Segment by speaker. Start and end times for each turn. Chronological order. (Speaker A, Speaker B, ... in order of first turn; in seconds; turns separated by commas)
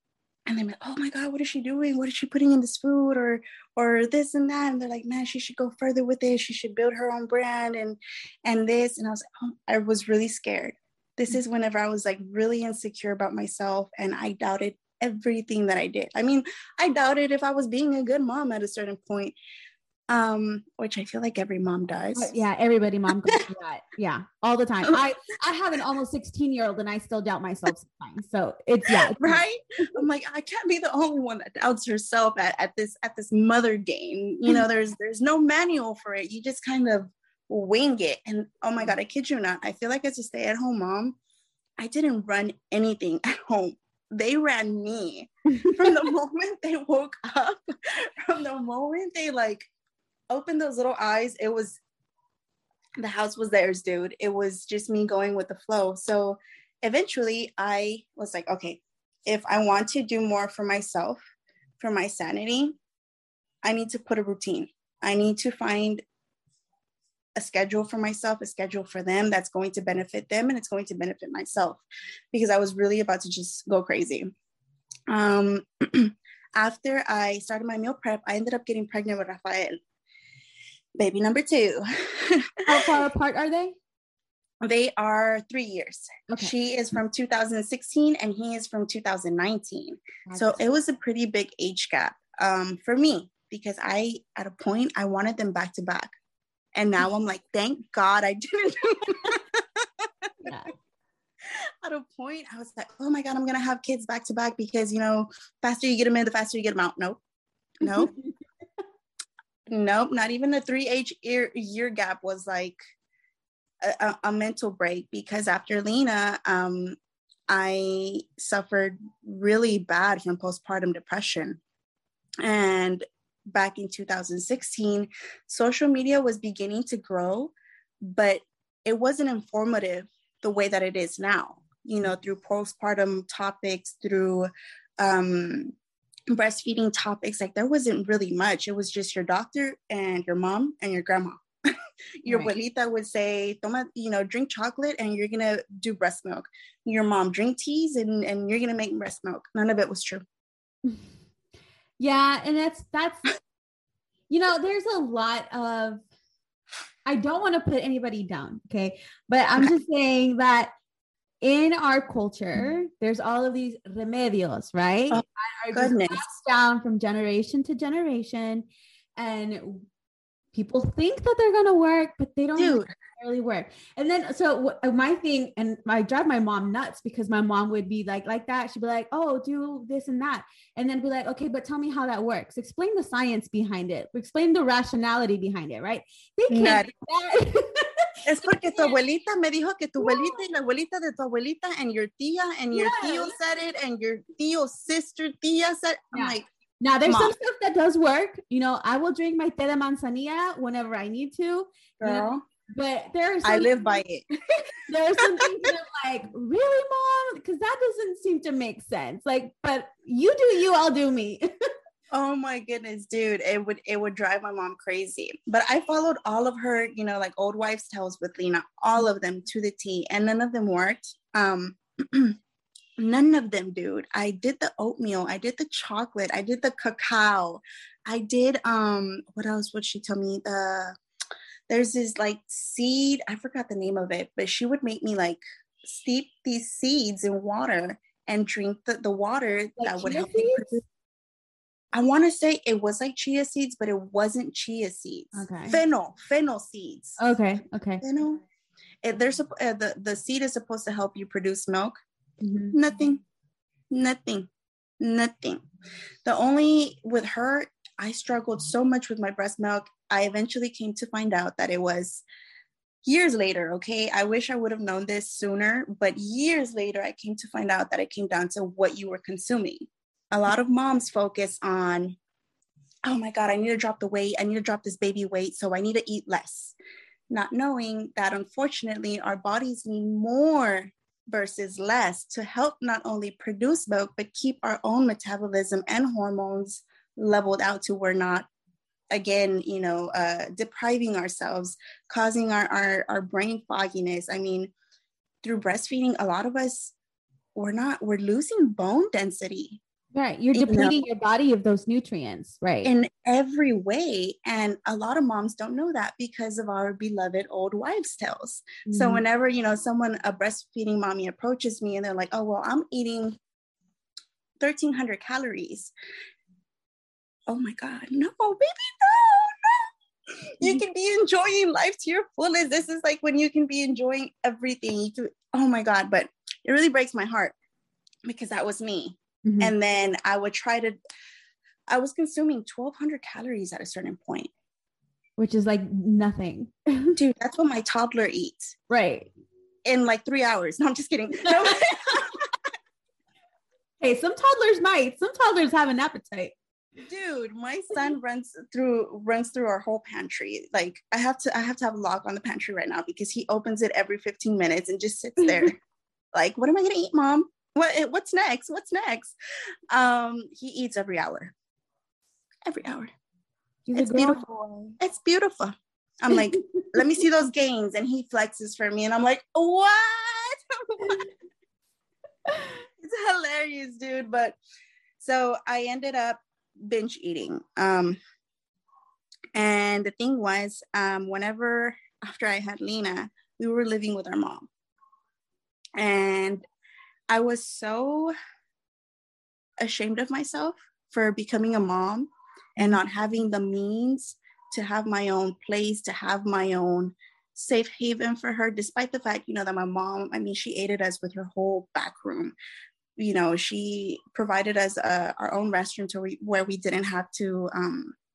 Speaker A: 0.5-19.4, Speaker A: 20.1-22.4, Speaker B: 22.1-29.9, Speaker A: 28.9-41.2, Speaker A: 41.8-49.7, Speaker B: 45.5-46.0, Speaker A: 50.3-51.8, Speaker A: 53.0-61.2, Speaker A: 61.8-62.8, Speaker A: 63.6-66.0, Speaker A: 67.4-74.3, Speaker A: 75.1-79.8, Speaker A: 81.0-82.8, Speaker B: 82.7-83.8, Speaker A: 84.6-96.1, Speaker B: 90.3-90.6, Speaker A: 96.8-100.1, Speaker B: 100.4-100.7, Speaker A: 101.8-107.2, Speaker A: 107.8-108.1, Speaker B: 107.8-108.3, Speaker A: 109.7-112.8, Speaker A: 113.8-117.0, Speaker A: 117.5-121.6, Speaker A: 122.4-134.5, Speaker A: 135.0-135.8, Speaker A: 136.3-150.2, Speaker B: 142.3-142.5, Speaker B: 152.0-153.3, Speaker B: 154.3-156.0, Speaker B: 157.1-160.7, Speaker B: 161.4-169.9, Speaker A: 165.1-166.2, Speaker B: 170.5-189.0, Speaker A: 172.6-172.9, Speaker A: 186.5-186.9, Speaker A: 188.3-196.5, Speaker B: 190.0-190.4, Speaker B: 192.7-193.4, Speaker B: 196.1-203.7, Speaker A: 197.1-197.3, Speaker A: 202.0-202.4, Speaker A: 203.4-204.2, Speaker B: 204.9-211.5, Speaker A: 212.1-222.4, Speaker A: 223.0-230.9, Speaker A: 231.7-240.8, Speaker B: 239.8-240.8, Speaker A: 241.9-247.2, Speaker B: 245.3-245.8, Speaker B: 247.2-248.0, Speaker A: 248.0-248.4, Speaker A: 249.0-252.0, Speaker B: 252.4-252.8, Speaker A: 252.7-253.2, Speaker A: 253.9-254.5, Speaker A: 255.0-255.6, Speaker A: 256.2-262.2, Speaker A: 263.1-272.2, Speaker A: 273.1-276.8, Speaker A: 277.3-288.5, Speaker A: 289.1-294.7, Speaker A: 295.4-296.9, Speaker A: 297.6-299.8, Speaker B: 300.1-302.9, Speaker A: 300.5-300.9, Speaker A: 302.8-313.4, Speaker B: 308.9-309.2, Speaker A: 314.6-315.9, Speaker A: 317.5-319.9, Speaker A: 320.6-327.5, Speaker A: 328.2-331.0, Speaker B: 329.4-329.7, Speaker A: 331.9-334.5, Speaker B: 335.4-337.1, Speaker A: 337.2-338.7, Speaker B: 338.9-339.3, Speaker A: 339.9-342.5, Speaker B: 341.4-342.2, Speaker B: 344.0-346.6, Speaker A: 347.0-355.8, Speaker A: 356.3-359.4, Speaker A: 359.9-361.5, Speaker A: 362.6-363.1, Speaker B: 363.9-364.9, Speaker A: 364.0-371.3, Speaker B: 372.5-372.7, Speaker A: 373.0-374.6, Speaker A: 375.2-378.2, Speaker A: 379.6-384.7, Speaker A: 386.0-386.7, Speaker A: 387.3-388.3, Speaker A: 389.8-402.5, Speaker A: 403.2-408.1